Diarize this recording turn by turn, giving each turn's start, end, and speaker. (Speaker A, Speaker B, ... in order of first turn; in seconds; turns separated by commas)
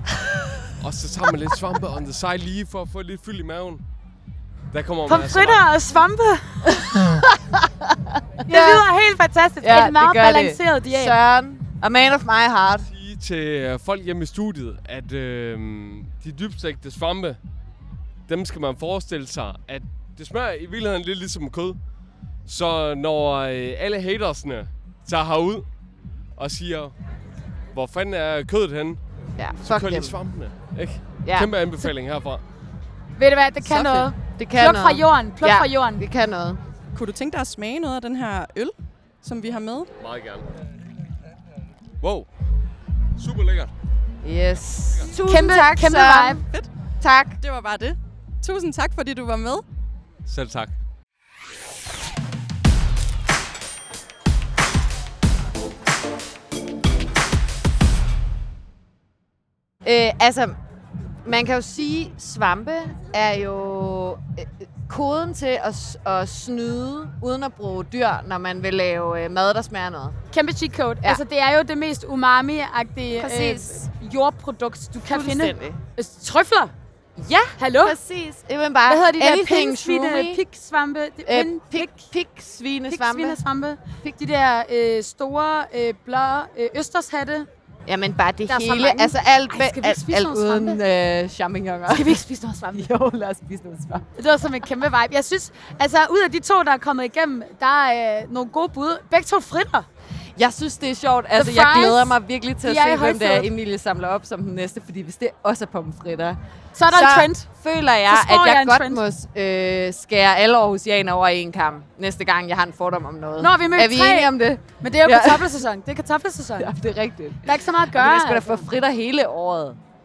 Speaker A: 0.8-3.8, Speaker A: 4.7-5.7, Speaker B: 5.1-6.8, Speaker C: 6.9-8.9, Speaker B: 8.5-11.2, Speaker C: 9.6-12.9, Speaker A: 12.9-17.4, Speaker A: 18.3-21.8, Speaker A: 22.5-25.7, Speaker A: 26.4-26.9, Speaker A: 27.7-29.0, Speaker C: 29.4-30.1, Speaker A: 29.6-32.4, Speaker C: 31.2-31.5, Speaker B: 33.2-36.0, Speaker C: 33.7-36.6, Speaker D: 36.9-39.9, Speaker A: 40.0-40.5, Speaker A: 42.0-42.3, Speaker A: 43.2-43.7, Speaker C: 44.2-46.4, Speaker B: 45.3-46.4, Speaker C: 47.0-47.4, Speaker D: 47.4-49.6, Speaker A: 50.3-50.7, Speaker C: 59.8-60.6, Speaker C: 61.2-70.2, Speaker B: 70.3-76.7, Speaker C: 73.2-73.9, Speaker C: 75.0-75.8, Speaker C: 77.2-80.4, Speaker B: 77.6-78.0, Speaker B: 78.9-82.0, Speaker C: 81.2-83.4, Speaker B: 82.9-87.5, Speaker C: 87.9-94.1, Speaker B: 88.5-90.8, Speaker B: 91.9-92.9, Speaker B: 94.2-99.9, Speaker C: 100.4-106.4, Speaker B: 101.4-103.5, Speaker B: 106.8-107.5, Speaker C: 106.9-115.5, Speaker B: 108.1-109.0, Speaker B: 113.4-116.7, Speaker C: 116.6-119.8, Speaker B: 117.4-118.7